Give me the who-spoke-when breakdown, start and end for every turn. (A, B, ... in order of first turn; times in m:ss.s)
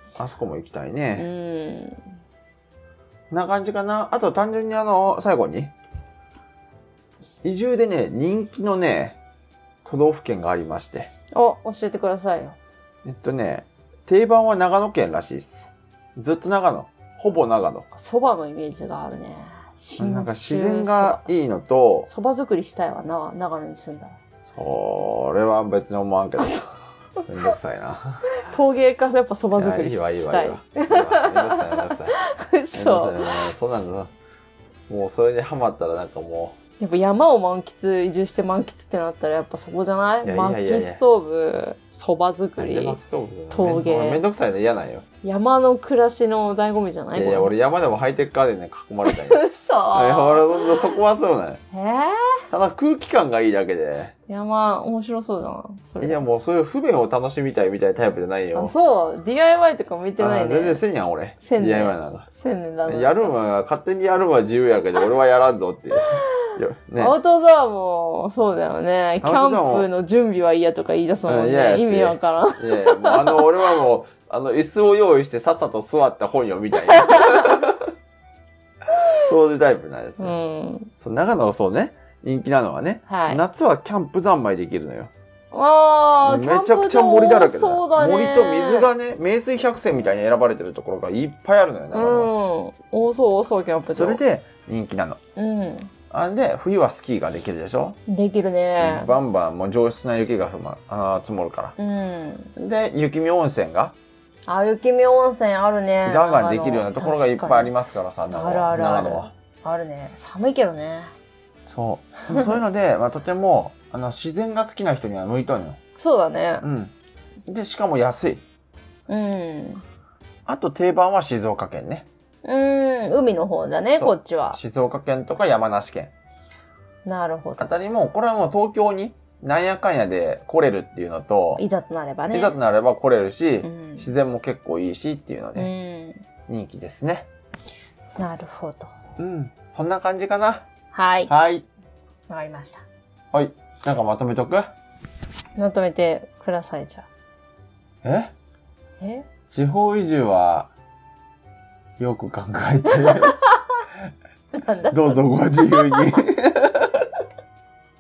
0:00.2-0:01.3 A
0:01.1-0:02.2 B
0:03.3-0:05.7 A
0:07.4-0:09.2 A
0:09.8-0:11.1 A
0:11.3-0:12.6 B
0:13.0-0:17.9 A
0:17.9-0:21.4 B
0:20.0-0:22.1 A
0:22.0-0:24.2 B
0:24.5-0:26.6 A
0:27.3-0:28.4 A
0:28.3-0:33.5 B
0:29.5-0:32.2 A
0:32.7-0:34.1 A
0:34.9-0:36.6 A
0:36.8-0:43.0 B
0:40.2-0:41.0 A
0:42.6-0:45.0 A
0:43.5-0:44.2 B
0:45.2-0:47.5 B
0:47.1-0:51.6 A
0:49.0-0:50.9 B
0:51.7-0:52.4 B
0:52.5-0:54.1 A
0:54.3-0:56.2 B
0:56.0-0:58.7 A
0:58.5-1:00.8 B
1:00.2-1:02.3 A
1:01.4-1:03.3 B
1:02.8-1:07.2 A
1:07.0-1:13.8 B
1:09.2-1:09.9 A
1:11.2-1:17.9 A
1:17.0-1:17.4 B
1:19.2-1:20.4 A
1:20.2-1:20.9 B
1:21.0-1:25.1 A
1:23.0-1:23.4 B
1:25.5-1:28.9 B
1:26.2-1:32.3 A
1:31.9-1:34.2 B
1:33.9-1:35.2 A
1:35.4-1:35.9 B
1:36.1-1:38.0 A
1:38.1-1:39.1 B
1:38.8-1:41.8 A
1:41.8-1:42.5 B
1:42.6-1:44.0 A
1:44.5-1:47.8 B
1:46.0-1:49.3 A
1:48.3-1:51.1 B
1:51.7-1:55.8 A
1:56.0-1:56.6 B
1:56.6-1:56.9 A
1:57.5-1:58.4 A
1:59.1-1:59.8 B
2:00.5-2:02.1 A
2:02.4-2:04.6 B
2:03.9-2:06.1 A
2:07.0-2:07.7 B
2:07.6-2:11.6 A
2:11.6-2:12.6 B
2:12.3-2:15.7 A
2:13.6-2:14.1 B
2:15.6-2:16.2 B
2:16.5-2:17.3 A
2:18.2-2:18.9 B
2:19.2-2:20.6 A
2:20.9-2:21.3 B
2:21.3-2:21.6 A
2:22.3-2:22.8 B
2:23.3-2:24.7 A
2:25.6-2:27.1 B
2:28.0-2:28.3 A
2:29.0-2:29.2 B
2:29.5-2:30.7 A
2:32.0-2:33.4 A
2:33.0-2:33.6 B
2:34.5-2:36.0 B
2:34.9-2:37.2 A